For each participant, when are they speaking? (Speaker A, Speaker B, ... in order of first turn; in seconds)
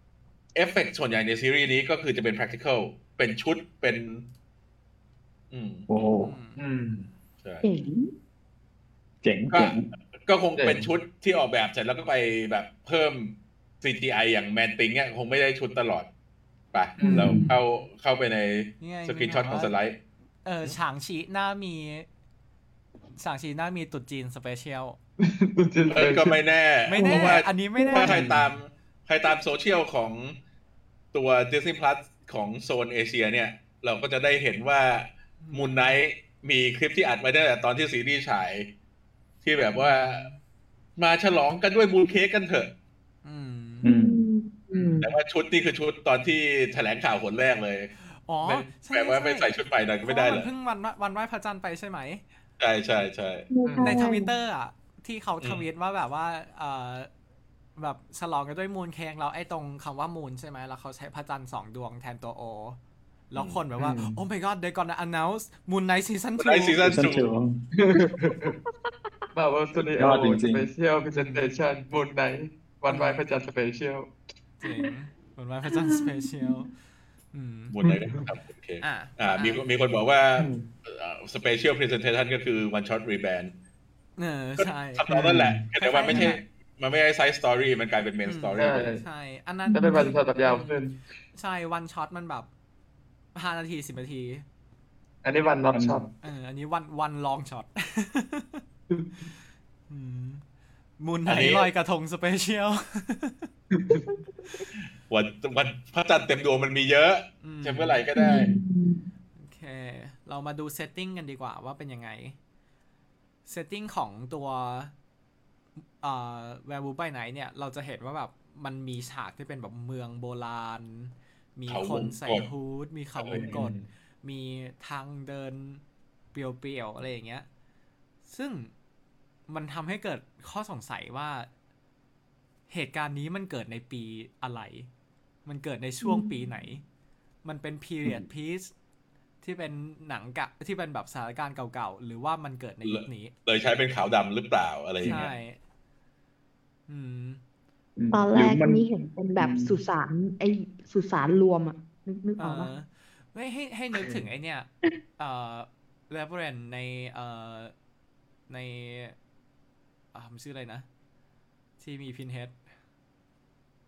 Speaker A: 0.6-4.2, 5.5-5.9, 9.5-16.1, 16.7-20.0, 25.9-30.4, 31.1-38.7, 39.4-40.2, 41.0-42.7, 45.0-47.9, 48.4-50.5, 52.6-53.5, 66.4-67.3, 77.7-83.5, 84.6-88.9, 101.3-101.7, 105.1-108.5, 121.7-122.5, 123.2-123.5, 142.8-145.3
Speaker B: 5.9-6.3, 9.2-9.9, 43.9-44.2, 66.8-67.7, 70.0-70.7, 95.7-96.1, 148.0-148.9, 149.4-149.8
Speaker C: 6.2-6.6, 18.8-19.7, 20.4-22.1, 23.2-25.0, 26.9-28.2, 35.4-36.0, 39.7-40.4, 43.2-43.9, 48.2-49.5, 50.0-52.2, 53.8-57.1, 57.8-62.8, 63.3-67.0, 71.1-71.6, 72.9-73.3, 74.6-76.7, 77.3-77.8, 78.8-79.7, 84.2-85.1, 85.8-86.4, 88.2-92.5, 93.3-94.5, 96.2-98.6, 99.9-100.4, 101.0-103.5, 107.4-108.0, 109.4-112.4, 113.5-114.9, 116.0-125.8, 126.3-127.5, 128.3-128.7, 129.5-131.5, 132.7-134.9, 135.5-136.8, 137.4-138.7, 139.4-143.3, 145.0-145.6, 146.9-147.4, 152.4-157.7, 158.5-159.2, 160.1-160.9, 161.8-162.6
Speaker D: 6.6-7.1, 10.6-10.9, 17.0-17.5, 25.2-26.4, 27.0-28.5, 53.6-54.0, 63.8-64.2, 67.8-68.5, 69.3-74.1, 77.8-78.2, 80.4-80.7, 85.1-85.7, 88.6-89.0, 89.7-91.0, 95.2-96.1, 103.7-104.1, 123.4-123.9, 154.0-154.3
Speaker E: 7.6-8.1, 17.0-17.5, 43.8-45.1, 53.5-54.3, 75.7-76.6, 89.7-90.1, 108.2-109.1, 136.0-136.4, 148.1-152.7